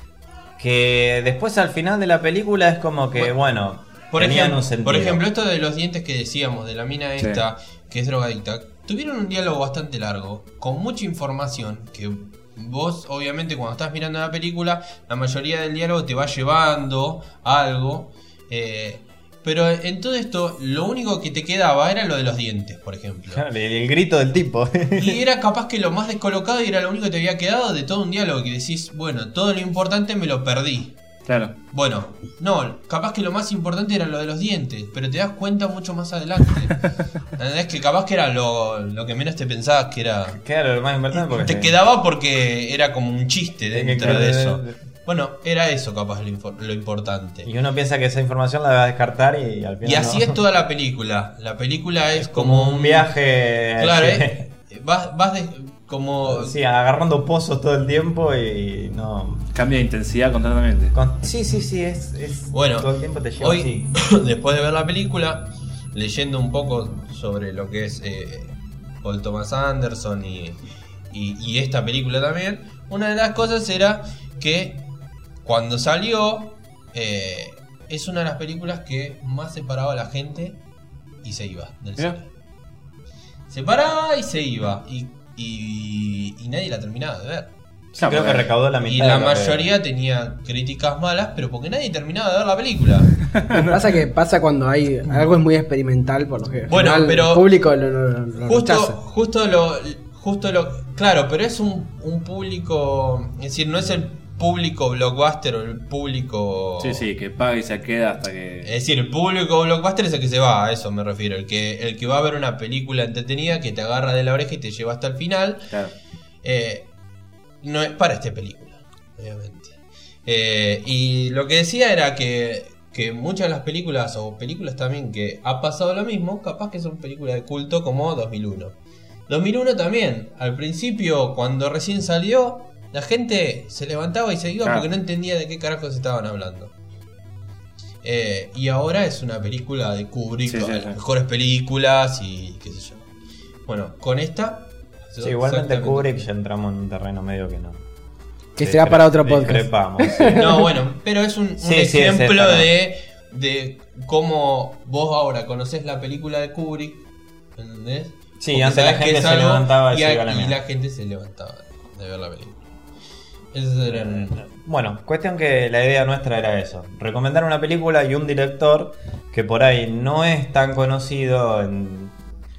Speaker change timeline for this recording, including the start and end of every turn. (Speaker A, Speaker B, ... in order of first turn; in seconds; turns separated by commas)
Speaker A: 0.6-5.2, Speaker B: 4.1-23.4, Speaker A: 23.3-25.2, Speaker B: 24.9-30.9, Speaker C: 31.3-31.6, Speaker B: 31.7-40.4, Speaker A: 40.3-41.7, Speaker B: 41.2-47.5, Speaker A: 43.7-44.8, Speaker A: 47.5-50.4, Speaker B: 49.8-53.1, Speaker A: 52.1-54.5, Speaker B: 53.8-56.5, Speaker A: 56.2-59.5, Speaker C: 59.5-60.9, Speaker A: 60.9-63.9, Speaker B: 62.5-62.9, Speaker B: 63.4-70.6, Speaker B: 71.1-74.8, Speaker B: 75.4-80.6, Speaker B: 81.2-82.3, Speaker B: 83.5-87.5, Speaker C: 88.0-88.5, Speaker A: 88.0-89.7, Speaker B: 88.9-93.2, Speaker C: 93.3-93.8, Speaker D: 93.5-99.0, Speaker B: 96.7-97.5, Speaker B: 98.4-107.0, Speaker C: 106.8-108.7, Speaker B: 108.6-115.7, Speaker B: 116.4-116.9, Speaker B: 117.6-128.7, Speaker B: 129.3-136.7, Speaker B: 138.0-143.1, Speaker C: 140.5-141.0, Speaker B: 143.7-146.2, Speaker A: 145.2-147.8, Speaker D: 148.6-150.5, Speaker A: 148.6-150.4, Speaker B: 150.3-157.0, Speaker A: 151.6-152.7, Speaker B: 157.6-162.6, Speaker A: 158.4-160.6, Speaker B: 163.5-164.4, Speaker A: 164.3-172.2